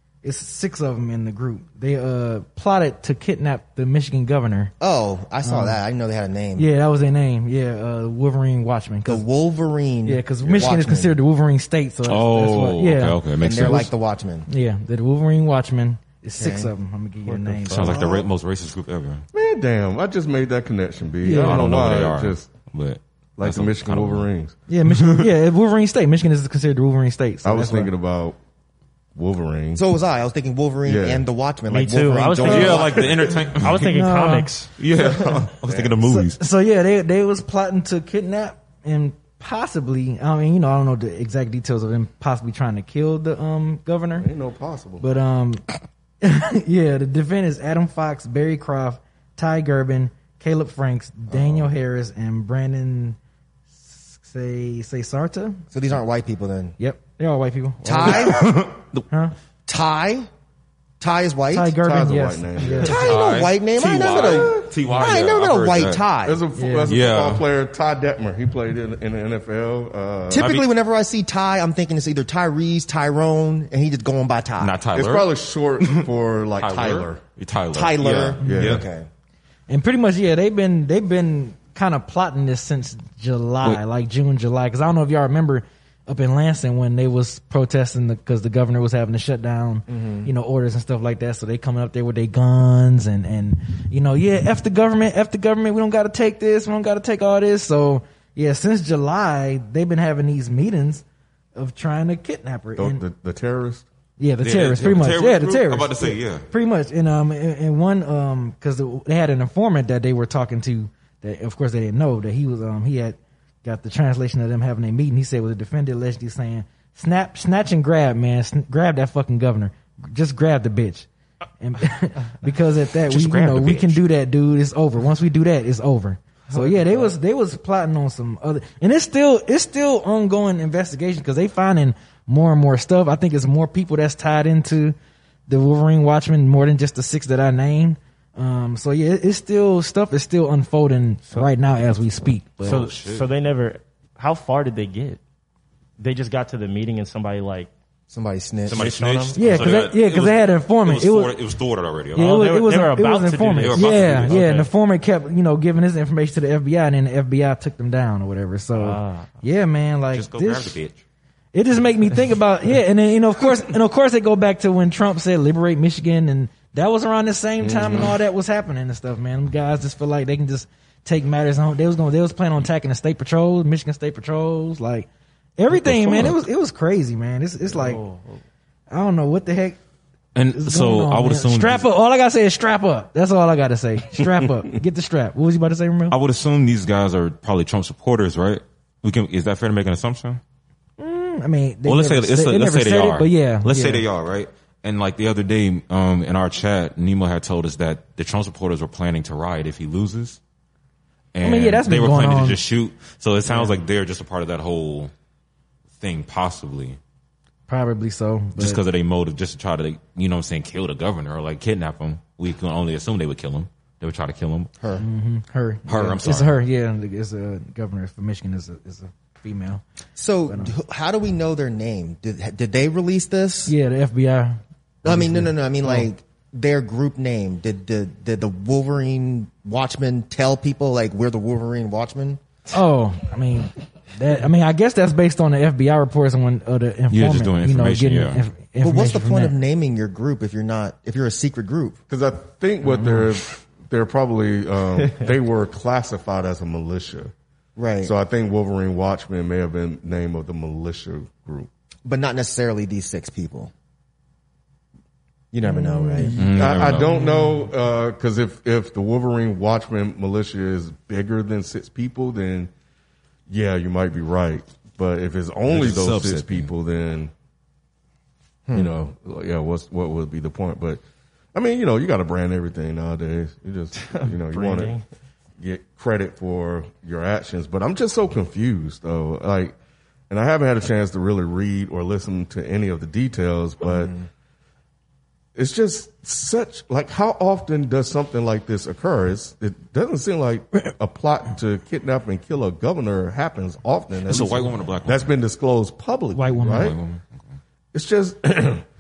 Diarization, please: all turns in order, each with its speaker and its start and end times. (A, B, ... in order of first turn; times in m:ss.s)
0:00.2-0:04.7 A
0:04.8-0:06.7 B
0:05.4-0:05.8 A
0:06.6-0:09.3 A
0:09.0-0:11.2 B
0:10.0-0:13.9 A
0:10.4-0:10.7 C
0:12.0-0:13.9 D
0:13.4-0:14.5 B
0:14.5-0:18.1 A
0:16.4-0:16.7 B
0:17.2-0:18.1 E
0:17.7-0:19.2 D
0:19.3-0:22.5 C
0:21.2-0:21.7 A
0:21.4-0:24.3 D
0:23.4-0:24.5 C
0:24.7-0:27.9 A
0:24.9-0:25.3 D
0:27.4-0:28.4 C
0:29.2-0:29.8 C
0:29.8-0:33.2 B
0:30.8-0:31.3 C
0:31.7-0:35.3 E
0:32.4-0:34.1 D
0:33.8-0:34.5 A
0:34.8-0:36.4 D
0:35.6-0:36.0 C
0:36.0-0:44.3 A
0:44.2-0:45.0 C
0:45.0-0:45.6 A
0:46.2-0:53.2 A
0:51.3-0:51.7 C
0:53.8-0:55.6 A
0:55.7-0:56.8 B
0:56.8-0:58.5 A
0:57.8-0:58.6 B
0:58.1-0:59.0 D
0:59.7-1:00.3 B
1:01.0-1:01.8 B
1:01.5-1:02.9 A
1:01.8-1:03.1 C
1:02.6-1:06.4 B
1:02.8-1:06.0 D
1:04.2-1:04.7 C
1:06.2-1:10.5 C
1:06.6-1:07.0 A
1:06.9-1:07.5 D
1:10.3-1:14.8 B
1:10.4-1:10.7 D
1:14.6-1:18.8 D
1:14.9-1:17.2 C
1:17.7-1:19.1 B
1:18.4-1:18.7 A
1:18.4-1:18.8 C
1:19.7-1:41.0 A
1:29.9-1:30.3 B
1:41.6-1:43.0 A
1:42.8-1:43.8 C
1:44.2-2:01.1 A
1:44.4-1:46.5 D
2:01.6-2:15.0 A
2:03.0-2:04.0 D
2:06.6-2:07.1 E
2:15.5-2:22.8 A
2:22.6-2:23.3 D
2:22.6-2:25.2 E
2:26.0-2:27.7 E
2:28.1-2:28.8 B
2:28.7-2:32.3 D
2:28.7-2:29.8 E
2:29.4-2:31.4 A
2:32.1-2:40.8 A
2:32.2-2:34.7 E
2:33.6-2:34.4 D
2:38.8-2:39.4 E
2:40.1-2:41.0 D
2:41.5-2:58.0 A
2:55.7-2:56.4 D
2:57.7-2:58.4 E
2:58.9-2:59.8 A
3:00.4-3:01.9 D
3:00.5-3:06.2 A
3:06.1-3:10.4 D
3:11.0-3:14.1 A
3:11.8-3:20.4 D
3:21.3-3:25.1 D
3:21.4-3:22.6 A
3:23.5-3:23.8 A
3:26.0-3:27.0 D
3:27.7-3:28.8 A
3:28.6-3:34.7 D
3:34.8-3:35.0 B
3:35.0-3:39.8 A
3:35.9-3:36.6 D
3:40.2-3:43.8 B
3:40.5-3:40.8 A
3:43.7-3:46.1 A
3:45.0-3:52.4 B
3:52.7-3:59.6 A
3:57.1-3:58.4 D
3:58.8-4:02.0 B
4:02.1-4:07.3 C
4:02.8-4:03.3 A
4:05.0-4:05.3 E
4:07.8-4:08.1 B
4:08.0-4:11.7 C
4:12.0-4:13.7 B
4:15.5-4:16.4 B
4:15.6-4:17.7 A
4:16.4-4:17.2 D
4:16.4-4:22.7 C
4:23.5-4:27.3 C
4:25.7-4:26.7 D
4:28.7-4:28.9 B
4:28.7-4:31.0 C
4:31.5-4:34.9 C
4:34.0-4:35.0 E
4:35.6-4:39.8 C
4:40.3-4:44.2 C
4:43.8-4:44.3 B
4:45.6-4:57.0 C
4:54.2-4:55.3 D
4:56.4-4:57.0 A
4:56.7-4:57.3 D
4:57.9-4:58.8 C